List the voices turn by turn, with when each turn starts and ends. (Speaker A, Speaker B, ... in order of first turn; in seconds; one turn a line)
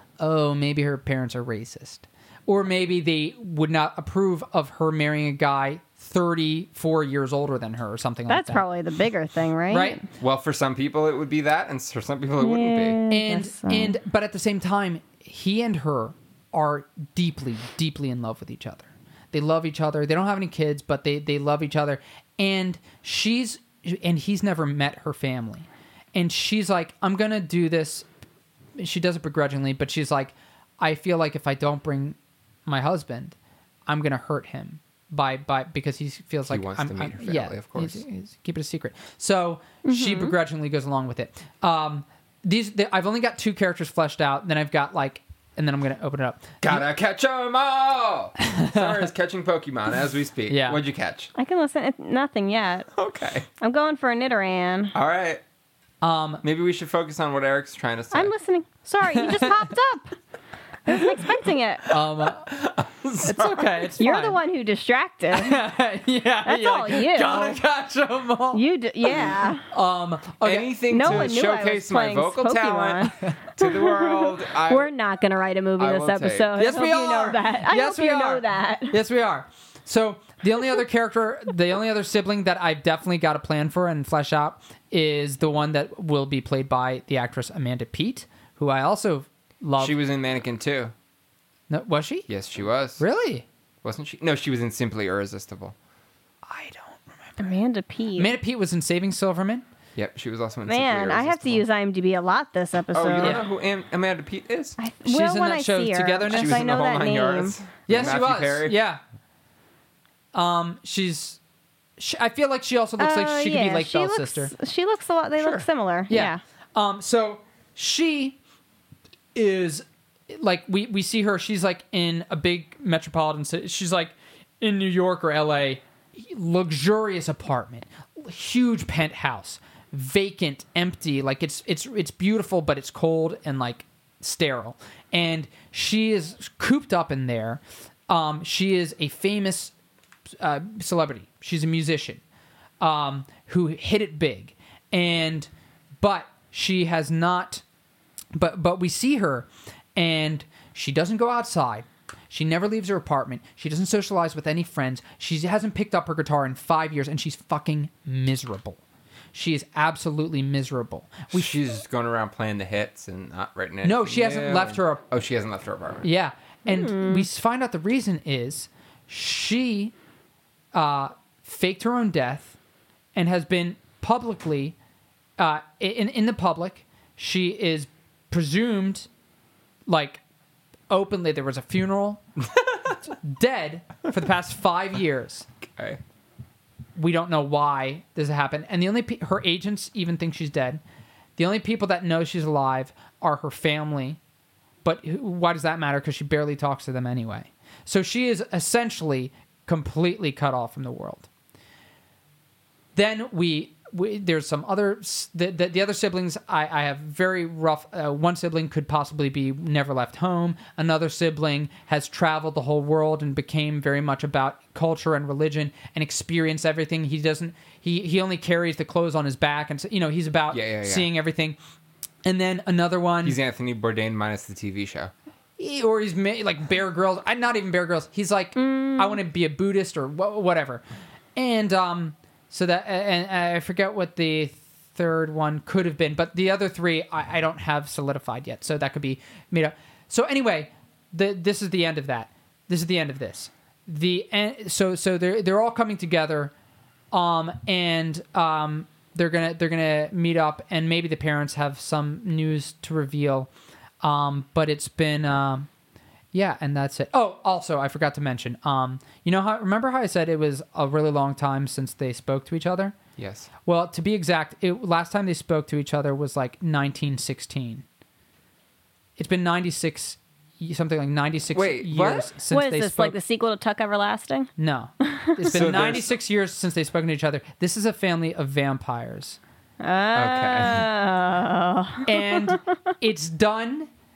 Speaker A: 0.2-8.6
Speaker B: 8.3-10.0
Speaker A: 9.7-10.0
Speaker C: 10.2-13.0
Speaker B: 12.4-13.9
Speaker A: 13.1-28.1
Speaker A: 28.8-33.4
Speaker A: 33.9-46.8
Speaker C: 36.5-38.0
Speaker B: 39.8-40.4
Speaker C: 46.6-51.3
Speaker A: 48.4-49.1
Speaker A: 50.5-50.8
Speaker B: 51.4-52.9
Speaker C: 52.9-53.5
Speaker B: 53.6-54.9
Speaker C: 54.9-55.4
Speaker A: 56.0-56.4
Speaker C: 56.4-58.3
Speaker B: 58.1-60.1
Speaker A: 59.2-59.5
Speaker B: 60.9-62.0
Speaker A: 61.9-62.6
Speaker C: 62.4-63.9
Speaker A: 63.2-64.4
Speaker B: 64.0-65.6
Speaker A: 65.3-68.6
Speaker B: 66.4-67.6
Speaker B: 68.5-69.6
Speaker A: 69.7-70.9
Speaker C: 70.4-74.9
Speaker B: 70.9-78.9
Speaker C: 75.8-76.5
Speaker A: 76.5-89.9
Speaker C: 89.8-90.9
Speaker A: 91.7-92.3
Speaker C: 92.3-93.0
Speaker A: 93.0-93.4
Speaker C: 93.8-95.7
Speaker A: 96.5-97.6
Speaker B: 97.4-98.3
Speaker A: 98.2-99.6
Speaker C: 100.0-101.6
Speaker B: 100.7-103.4
Speaker C: 102.9-104.8
Speaker A: 103.2-103.5
Speaker B: 104.8-107.5
Speaker A: 105.0-106.6
Speaker C: 106.3-108.8
Speaker A: 107.9-109.0
Speaker A: 110.3-111.4
Speaker A: 112.0-114.5
Speaker B: 113.0-116.4
Speaker C: 115.4-115.7
Speaker A: 116.1-118.4
Speaker A: 119.3-139.7
Speaker A: 140.4-142.2
Speaker A: 142.8-145.5
Speaker A: 146.0-147.6
Speaker A: 148.3-158.8
Speaker A: 159.3-161.5
Speaker C: 161.3-166.0
Speaker A: 163.8-165.0
Speaker A: 166.0-169.9
Speaker B: 166.7-167.3
Speaker A: 170.7-172.6
Speaker A: 173.1-174.8
Speaker A: 175.4-179.1
Speaker A: 179.9-180.2
Speaker A: 180.9-182.2
Speaker A: 183.0-185.5
Speaker C: 185.7-186.0
Speaker A: 187.0-190.8
Speaker A: 191.4-194.2
Speaker A: 194.8-201.3
Speaker A: 202.9-221.6
Speaker C: 220.5-221.1
Speaker A: 222.2-223.4
Speaker C: 223.2-225.1
Speaker A: 225.6-230.8
Speaker B: 228.6-229.2
Speaker A: 231.3-246.5
Speaker A: 247.1-253.5
Speaker A: 254.0-255.7
Speaker A: 256.3-262.9
Speaker C: 263.2-263.5
Speaker A: 263.6-267.8
Speaker A: 269.2-273.1
Speaker C: 271.5-272.3
Speaker B: 272.5-275.7
Speaker A: 274.6-279.4
Speaker C: 275.5-276.2
Speaker B: 279.8-282.6
Speaker C: 280.1-280.9
Speaker A: 282.0-283.9